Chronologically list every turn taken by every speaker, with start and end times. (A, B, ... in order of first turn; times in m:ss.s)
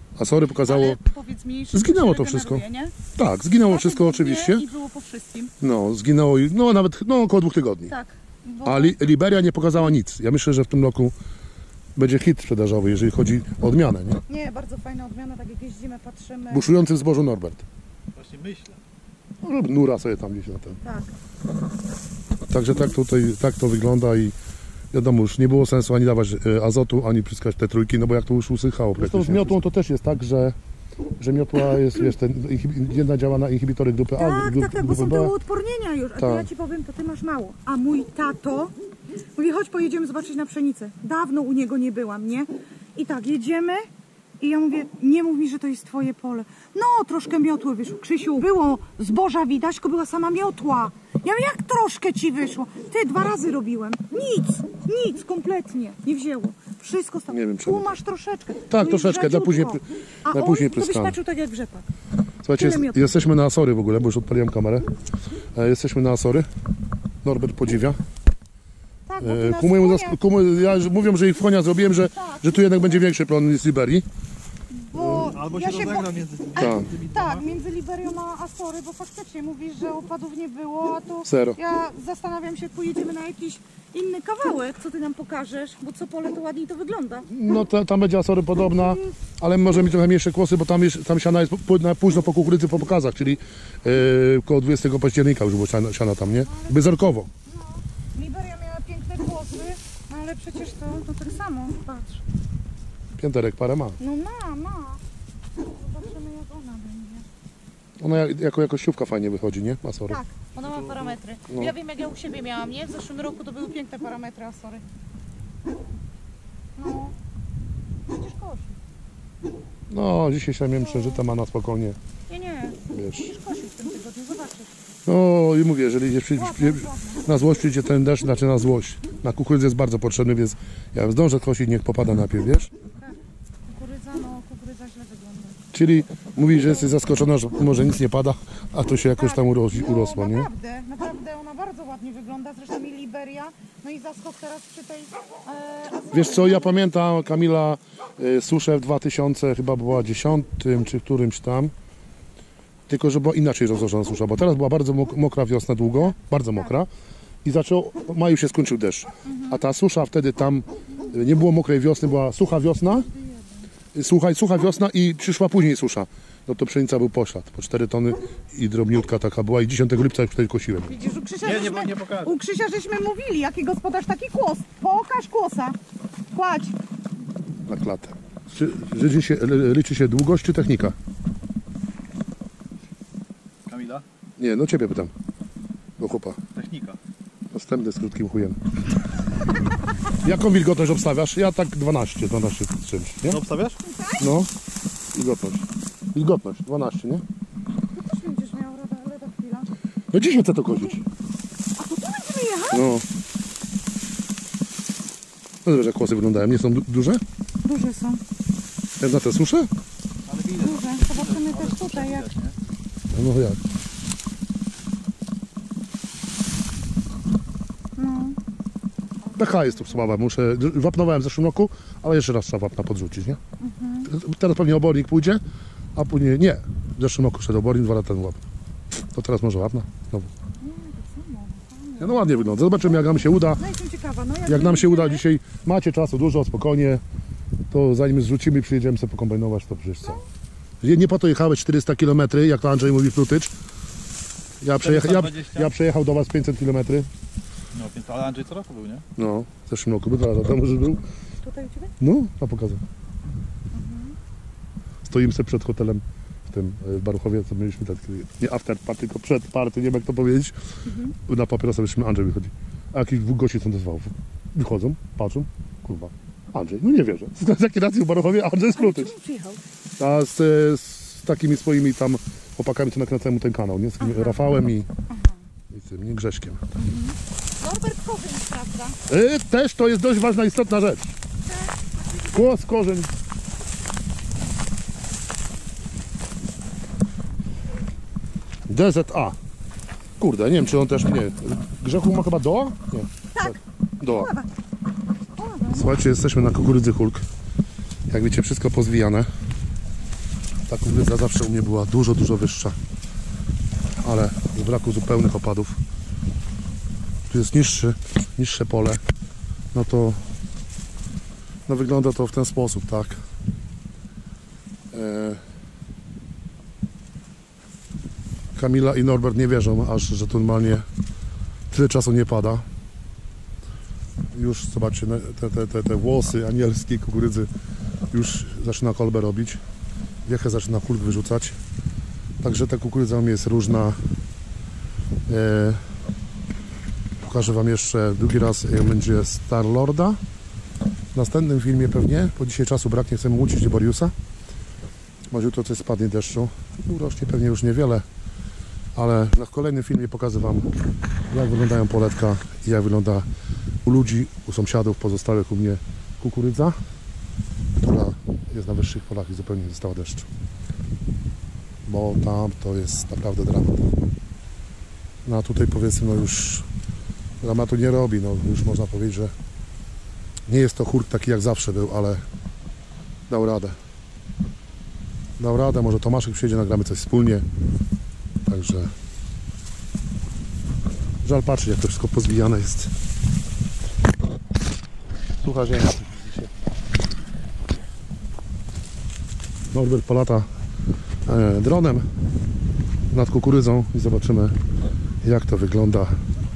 0:00.2-0:01.0 A
0:00.6-0:03.0 B
0:01.7-0:02.6 A
0:03.1-0:04.6 A
0:03.6-0:05.5 B
0:05.6-0:07.9 A
0:07.9-0:09.0 B
0:08.6-0:11.1 A
0:12.0-0:14.2 A
0:14.3-0:16.8 B
0:16.5-0:17.6 A
0:18.2-0:18.8 C
0:19.4-0:20.8 A
0:20.8-0:21.1 B
0:22.5-0:24.4 A
0:24.9-0:30.6 A
0:31.2-0:35.3 A
0:34.2-0:38.7 B
0:36.2-0:36.5 A
0:39.4-0:43.9 B
0:44.4-1:01.9 B
0:57.3-0:57.9 A
0:58.7-1:01.2 A
1:02.4-1:04.9 A
1:02.6-1:03.2 B
1:05.6-1:06.5 A
1:07.2-1:08.0 A
1:09.1-1:10.2 B
1:09.2-1:14.1 A
1:12.1-1:12.8 B
1:14.7-1:27.3 B
1:15.2-1:17.4 C
1:16.6-1:16.9 A
1:21.2-1:21.6 A
1:27.3-1:37.3 A
1:28.7-1:29.1 B
1:36.4-1:36.9 B
1:37.5-1:42.2 B
1:43.2-1:44.0 A
1:44.0-1:45.0 B
1:45.6-1:47.2 B
1:48.0-1:50.2 A
1:50.1-1:54.8 B
1:56.8-1:57.2 B
1:58.1-1:58.8 B
1:59.9-2:02.0 A
2:00.8-2:01.2 B
2:02.3-2:04.7 B
2:02.9-2:03.3 A
2:05.1-2:12.7 A
2:06.3-2:07.4 B
2:12.8-2:15.6 B
2:15.7-2:20.5 A
2:19.2-2:26.8 B
2:26.1-2:31.7 A
2:32.9-2:36.9 A
2:37.4-2:43.1 A
2:39.3-2:39.6 B
2:43.0-2:43.7 B
2:43.9-2:51.0 A
2:50.9-2:55.8 B
2:51.4-2:52.3 C
2:56.3-2:56.8 B
2:57.7-3:01.0 A
3:03.7-3:04.0 C
3:04.4-3:05.1 A
3:06.0-3:06.4 A
3:06.5-3:07.0 C
3:07.5-3:08.6 A
3:10.2-3:13.4 A
3:13.2-3:13.8 C
3:13.8-3:14.3 B
3:14.2-3:14.5 A
3:15.1-3:17.2 A
3:18.0-3:19.7 B
3:20.1-3:21.0 A
3:20.7-3:21.0 B
3:21.8-3:22.8 B
3:22.7-3:23.0 A
3:25.6-3:27.2 A
3:27.6-3:28.2 B
3:29.0-3:29.7 A
3:30.3-3:32.6 C
3:30.6-3:32.3 B
3:33.1-3:33.6 A
3:38.0-3:38.4 B
3:39.2-3:40.1 B
3:39.4-3:43.4 A
3:43.6-3:44.1 B
3:44.0-3:45.4 A
3:46.0-3:48.4 A
3:49.1-3:50.3 A
3:50.6-3:55.2 B
3:52.0-3:53.6 A
3:54.5-3:57.0 A
3:57.7-4:00.2 A
4:00.8-4:03.5 A
4:04.6-4:07.1 A
4:04.8-4:05.7 C
4:07.7-4:09.0 C
4:09.2-4:11.0 A
4:11.4-4:12.0 B
4:12.0-4:12.8 A
4:13.7-4:14.2 B
4:15.1-4:20.6 A
4:20.9-4:21.1 B
4:21.2-4:29.1 A
4:28.8-4:29.6 B
4:30.0-4:34.9 A
4:34.0-4:34.4 B
4:35.1-4:35.4 B
4:35.7-4:36.6 A
4:36.8-4:39.0 B
4:39.1-4:41.1 A
4:41.5-4:42.3 B
4:42.3-4:43.1 A
4:48.7-4:49.4 A
4:50.2-4:54.3 A
4:53.3-4:54.5 B
4:55.4-4:55.9 B
4:55.7-4:57.2 A
4:58.1-4:59.3 A
5:00.7-5:02.8 A
5:04.0-5:05.8 A
5:07.3-5:09.0 A
5:09.7-5:10.2 A
5:11.7-5:13.2 A
5:14.9-5:15.4 A
5:18.6-5:20.8 A
5:21.7-5:22.6 A
5:24.3-5:27.5 A
5:28.1-5:29.6 A
5:30.2-5:31.6 A
5:32.4-5:34.0 A
5:35.3-5:35.8 A
5:37.2-5:40.2 A
5:41.1-5:44.1 A
5:45.3-5:48.0 A
5:49.0-5:50.7 A
5:51.3-5:53.2 A
5:53.8-5:56.8 A
5:57.8-6:00.3 A
6:01.9-6:03.9 A
6:05.2-6:06.7 A
6:07.4-6:09.3 A
6:10.5-6:12.2 A
6:13.3-6:13.8 A
6:15.4-6:17.4 A
6:18.4-6:18.9 A
6:21.2-6:22.9 A
6:25.4-6:26.5 A
6:29.7-6:30.5 A
6:31.2-6:32.0 A
6:33.1-6:34.5 A
6:35.2-6:36.1 A